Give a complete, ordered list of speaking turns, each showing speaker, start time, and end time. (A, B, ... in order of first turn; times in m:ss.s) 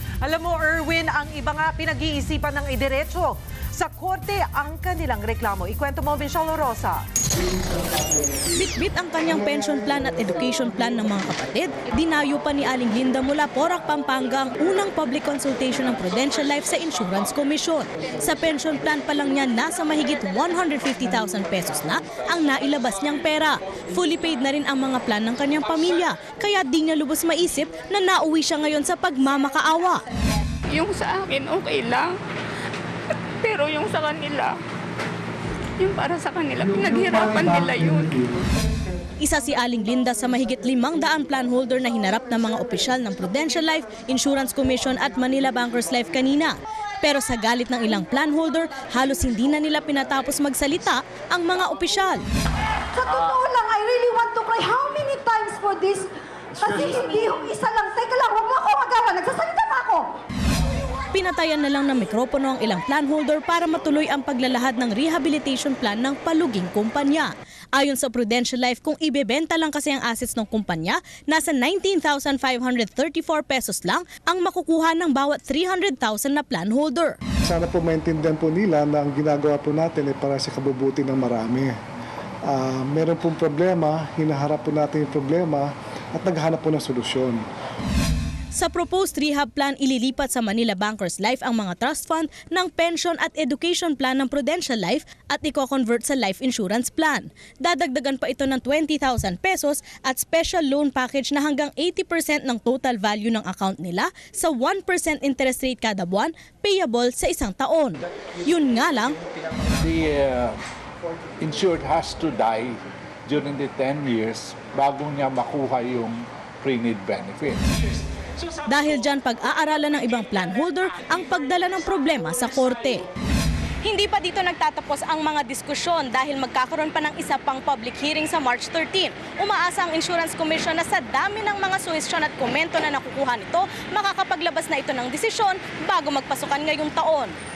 0:00.2-0:07.0 A
0:08.6-0:30.0 B
0:30.7-0:32.1 C
0:33.4-0:34.5 C
0:35.8-0:38.1 C
0:36.6-0:38.4 D
0:39.2-0:52.2 B
0:52.9-1:00.1 E
1:01.1-1:17.2 B
1:17.5-1:21.8 D
1:22.5-1:27.4 D
1:28.6-1:49.2 B
1:49.8-1:50.6 F
1:51.4-1:57.7 F
1:58.7-2:03.0 B
2:03.8-2:17.3 B